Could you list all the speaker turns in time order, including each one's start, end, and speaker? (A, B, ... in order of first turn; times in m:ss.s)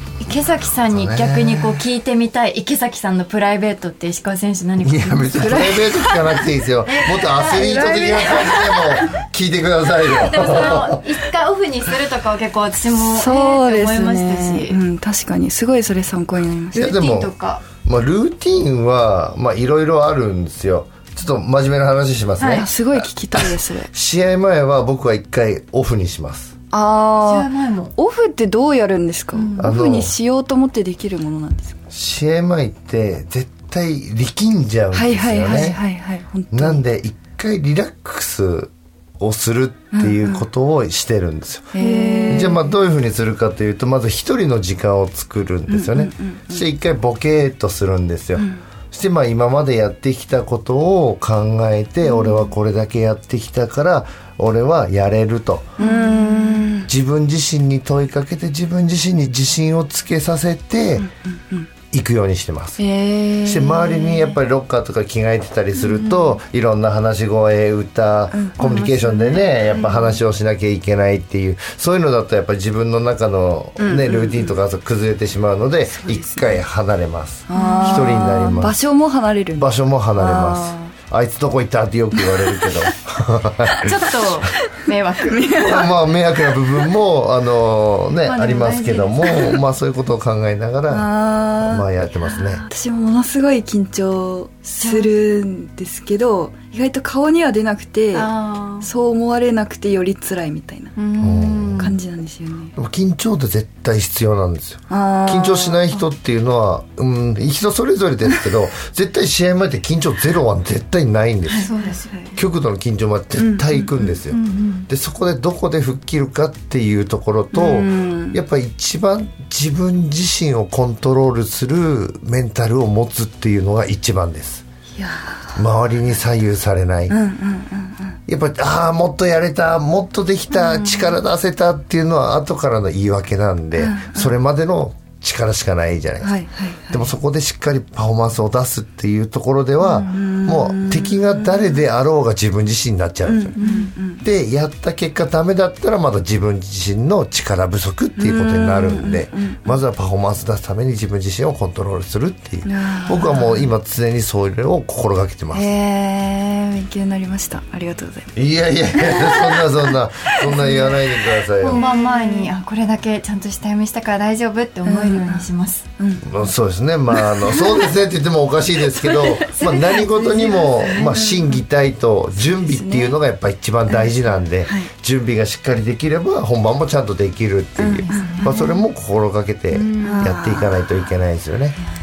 0:00.2-0:05.7 A
0:00.2-0:01.7 B
0:04.8-0:10.9 B
0:05.4-0:06.4 C
0:06.8-0:08.6 A
0:07.5-0:09.1 C
0:10.2-0:14.8 A
0:12.9-0:16.9 C
0:16.7-0:23.0 B
0:16.8-0:17.6 A
0:22.4-0:22.6 A
0:22.5-0:23.9 C
0:23.9-0:26.5 B
0:26.7-0:31.8 C
0:27.2-0:27.9 A
0:29.3-0:29.7 A
0:29.6-0:30.1 B
0:31.9-0:35.8 B
0:34.9-0:36.8 C
0:36.5-0:55.7 B
0:39.9-0:40.4 C
0:41.7-0:42.7 C
0:41.8-0:42.6 A
0:45.7-0:46.6 C
0:48.4-0:48.6 C
0:55.8-0:56.6 A
0:55.8-0:56.9 C
0:56.8-1:01.1 B
1:01.0-1:01.7 C
1:01.9-1:02.8 B
1:02.8-1:04.4 C
1:03.4-1:18.8 B
1:05.8-1:06.4 C
1:08.3-1:08.6 C
1:08.6-1:09.7 A
1:09.7-1:10.0 C
1:13.8-1:14.6 C
1:15.8-1:16.6 C
1:17.5-1:20.9 C
1:17.5-1:18.6 A
1:19.6-1:23.8 B
1:22.3-1:22.7 C
1:23.8-1:25.6 A
1:25.2-1:26.5 C
1:25.6-1:31.1 B
1:28.2-1:29.5 A
1:30.9-1:31.9 C
1:31.6-1:32.6 B
1:32.3-1:32.6 A
1:32.7-1:41.0 C
1:34.8-1:35.1 A
1:38.1-1:38.9 A
1:41.0-1:42.0 A
1:41.2-1:42.0 B
1:41.8-1:42.7 C
1:42.8-1:51.7 B
1:44.9-1:45.8 C
1:51.4-1:52.3 A
1:51.9-1:52.4 C
1:52.4-2:04.6 B
1:53.4-1:54.1 C
1:54.3-1:54.9 A
1:57.5-1:58.4 C
2:05.0-2:05.4 C
2:05.5-2:07.1 B
2:07.1-2:08.2 C
2:08.3-2:23.6 B
2:10.5-2:11.1 C
2:13.8-2:14.4 C
2:16.2-2:17.1 C
2:19.8-2:21.7 C
2:23.2-2:24.2 C
2:23.6-2:23.9 A
2:24.2-2:35.7 B
2:28.2-2:29.8 C
2:32.6-2:33.7 C
2:35.5-2:38.3 C
2:38.4-2:41.8 B
2:38.9-2:39.9 C
2:40.4-2:41.0 C
2:41.6-2:45.9 A
2:41.7-2:42.5 C
2:44.8-2:45.5 C
2:46.0-2:46.5 C
2:46.2-3:01.8 B
2:47.1-2:47.8 C
2:49.2-2:49.6 C
2:49.6-2:51.3 A
2:50.4-2:51.5 C
2:52.4-2:53.2 C
2:53.9-2:54.9 C
2:57.8-2:58.8 C
2:58.1-2:58.7 A
2:59.7-3:00.3 A
3:00.0-3:00.9 C